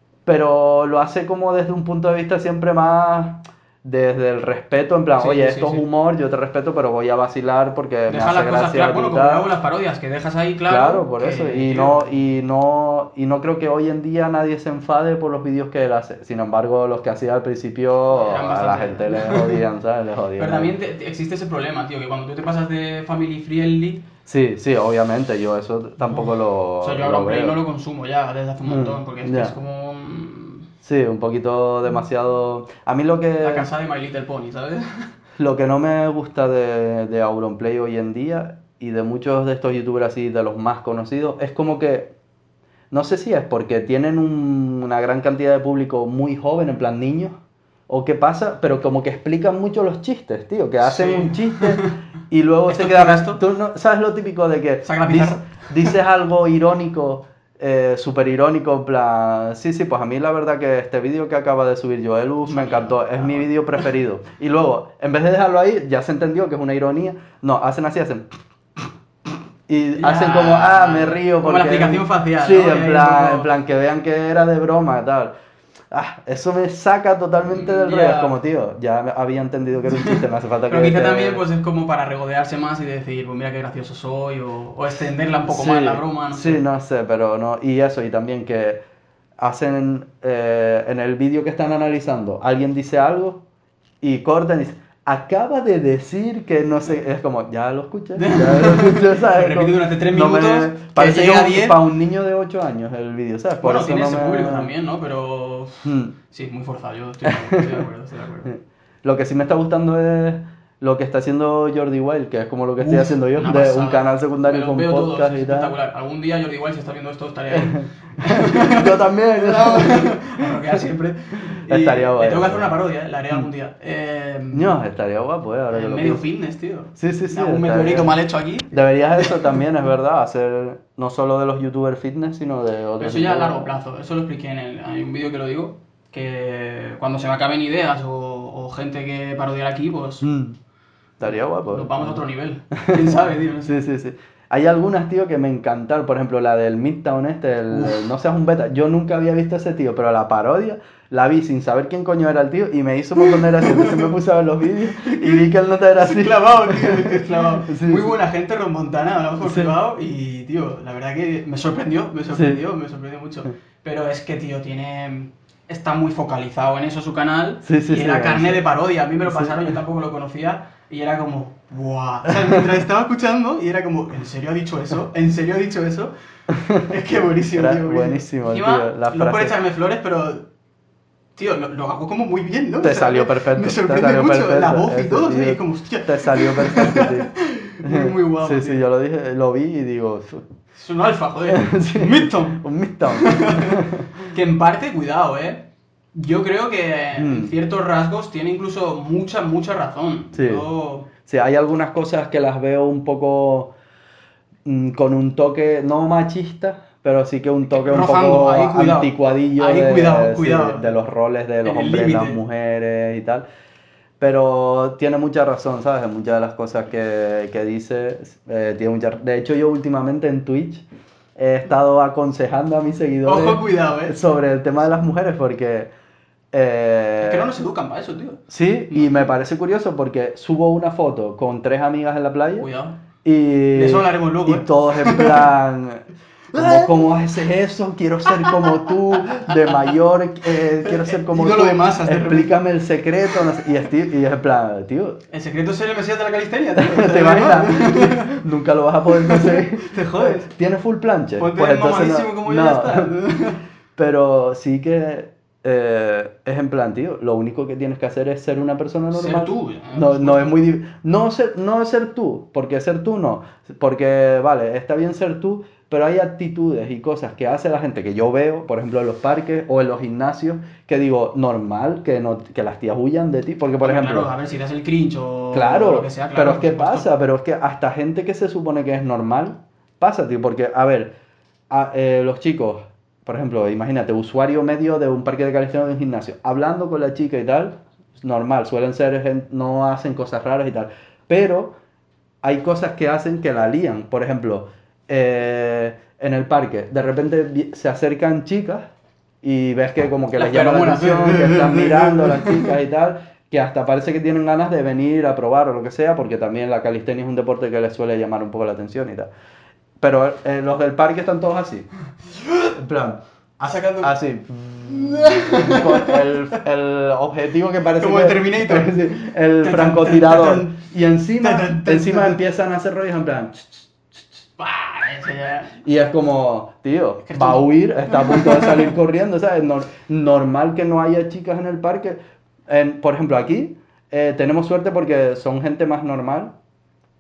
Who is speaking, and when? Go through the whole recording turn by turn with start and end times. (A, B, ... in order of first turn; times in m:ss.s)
0:00.3-0:09.4 A
0:05.2-0:05.8 B
0:08.1-0:12.0 B
0:10.7-0:20.7 A
0:18.1-0:19.6 B
0:20.4-0:24.0 B
0:24.3-0:27.6 A
0:26.0-0:30.7 B
0:28.7-0:29.5 A
0:30.8-0:33.7 A
0:33.4-0:35.1 B
0:35.4-0:42.1 A
0:42.9-0:47.4 A
0:47.9-1:08.2 A
0:50.8-0:51.9 B
0:52.7-0:53.4 B
0:54.8-0:56.0 B
1:02.4-1:03.9 B
1:09.7-1:15.3 A
1:10.0-1:13.5 B
1:15.9-1:21.4 A
1:17.5-1:18.4 B
1:19.9-1:26.6 B
1:25.5-1:28.8 A
1:29.4-1:33.4 A
1:34.0-1:44.7 A
1:38.2-1:41.8 B
1:43.6-1:48.5 B
1:45.8-1:46.2 A
1:47.3-1:47.8 A
1:48.4-1:55.7 A
1:52.8-2:04.8 B
1:57.5-2:00.8 A
2:01.5-2:02.7 A
2:04.5-2:06.2 A
2:05.7-2:09.6 B
2:07.0-2:08.2 A
2:08.7-2:13.7 A
2:13.0-2:20.3 B
2:20.2-2:20.6 A
2:21.2-2:38.1 A
2:21.3-2:23.8 B
2:27.7-2:28.1 B
2:33.2-2:34.1 B
2:35.0-2:56.1 B
2:39.4-2:39.8 A
2:42.3-2:42.6 A
2:47.6-2:48.6 A
2:49.2-2:49.7 A
2:56.5-2:56.9 A
2:56.8-3:00.5 B
2:57.6-2:59.6 A
3:01.4-3:08.8 B
3:02.8-3:07.3 A
3:07.8-3:10.4 A
3:10.7-3:21.1 B
3:11.5-3:14.3 A
3:17.2-3:17.5 A
3:20.3-3:20.7 A
3:21.2-3:23.7 A
3:24.6-3:33.4 A
3:27.7-3:30.9 B
3:31.6-3:32.4 B
3:34.2-3:40.8 A
3:41.4-3:45.9 A
3:43.2-3:44.2 B
3:46.5-3:47.5 A
3:47.2-3:49.4 B
3:48.5-3:52.7 A
3:52.6-3:53.0 B
3:53.2-4:05.2 A
3:53.7-3:55.5 B
3:56.5-3:57.2 B
3:58.2-3:58.9 B
3:59.5-3:59.8 B
4:00.8-4:02.6 B
4:05.3-4:08.4 B
4:06.8-4:13.1 A
4:09.1-4:10.5 B
4:11.4-4:13.6 B
4:14.0-4:34.3 A
4:19.1-4:20.5 B
4:33.8-4:37.1 B
4:35.5-4:41.1 A
4:41.7-4:51.8 A
4:52.4-4:58.9 A
4:59.4-5:09.3 A
5:00.4-5:02.7 B
5:10.0-5:11.9 A
5:12.6-5:23.8 A
5:13.7-5:14.1 B
5:14.8-5:16.2 B
5:18.0-5:20.8 B
5:21.4-5:22.4 B
5:24.6-5:25.7 B
5:25.8-5:36.5 A
5:27.3-5:29.0 B